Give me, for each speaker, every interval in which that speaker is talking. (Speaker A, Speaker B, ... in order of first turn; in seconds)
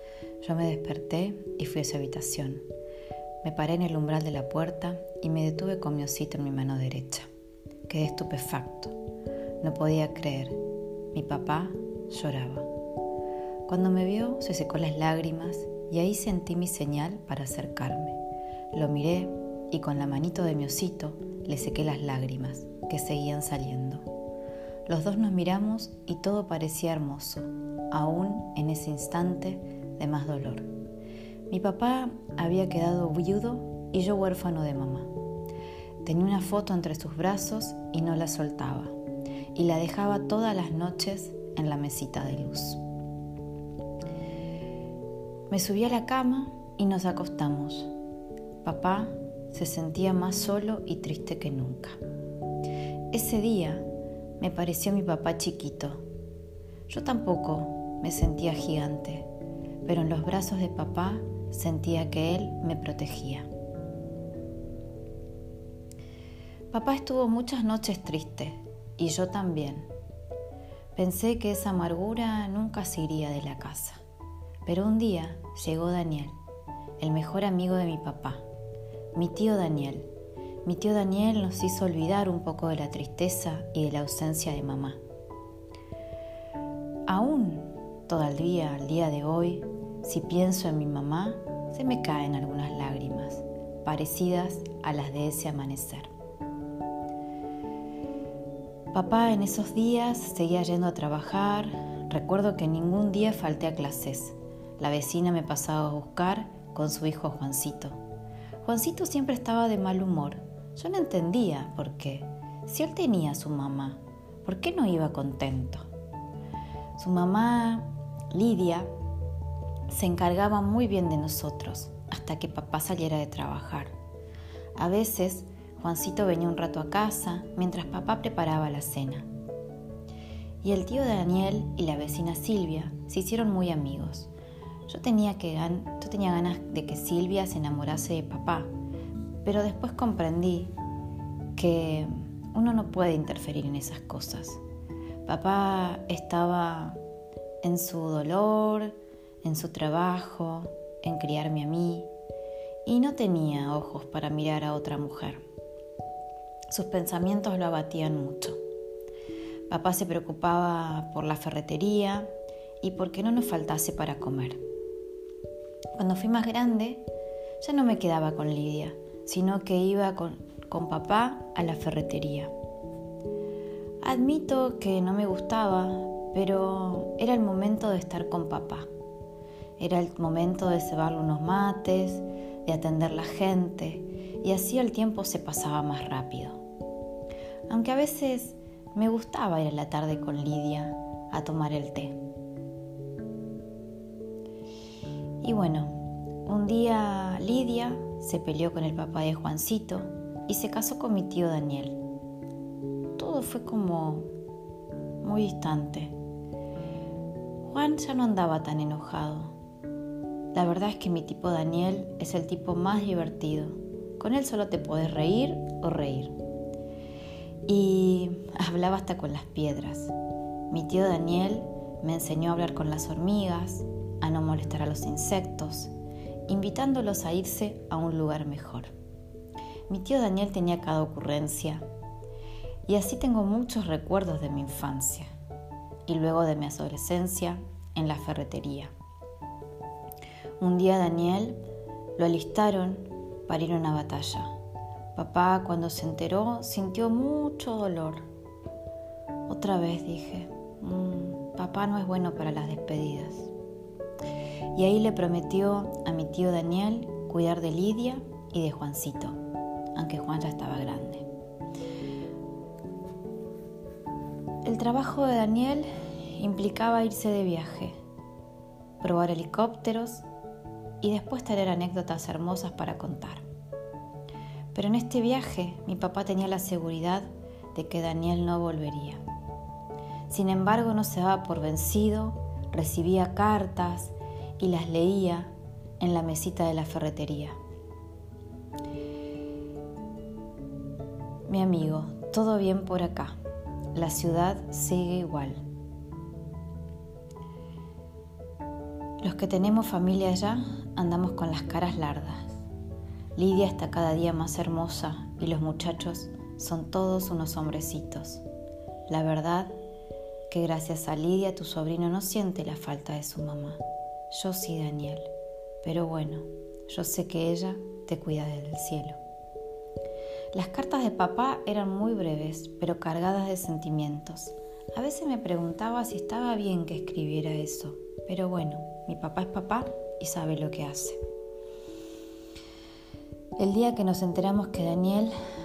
Speaker A: 0.4-2.6, 3.4-7.3, 7.9-8.9, 9.6-10.6, 11.1-12.7, 13.7-18.2, 18.7-24.1, 24.9-30.7, 31.5-35.1, 36.0-38.9, 39.5-42.8, 45.5-47.9, 48.6-52.0, 53.1-53.9, 54.4-56.0, 56.9-59.3, 59.8-63.5, 66.7-69.9, 70.9-74.0, 74.7-76.4, 77.0-78.4, 79.1-80.1, 80.6-85.0, 87.1-96.1, 98.9-108.0, 108.6-115.9, 117.0-118.9, 119.9-123.9, 124.8-129.3, 130.6-134.3, 134.9-138.7, 139.4-140.7, 141.5-144.6, 145.2-147.0, 147.6-152.1, 152.8-155.4, 156.7-158.6, 159.7-164.6, 165.9-167.1, 167.6-172.5, 174.0-178.9, 179.8-186.6, 187.7-192.2, 195.4-202.0, 203.2-204.3, 205.2-206.1, 207.6-209.5, 210.5-216.3, 217.7-220.1, 220.7-225.9, 226.5-228.9, 229.9-231.8, 232.8-235.3, 236.1-238.9, 240.6-241.6, 242.2-244.5, 245.1-248.2, 249.5-253.5, 254.7-259.4, 259.9-261.2, 264.6-268.0, 269.0-270.2, 271.0-273.4, 274.7-279.2, 280.3-287.6, 291.5-293.3, 293.9-295.6, 299.2-302.5, 303.4-308.4, 309.1-309.7, 310.5-315.3, 315.8-319.2, 320.5-331.2, 333.6-335.3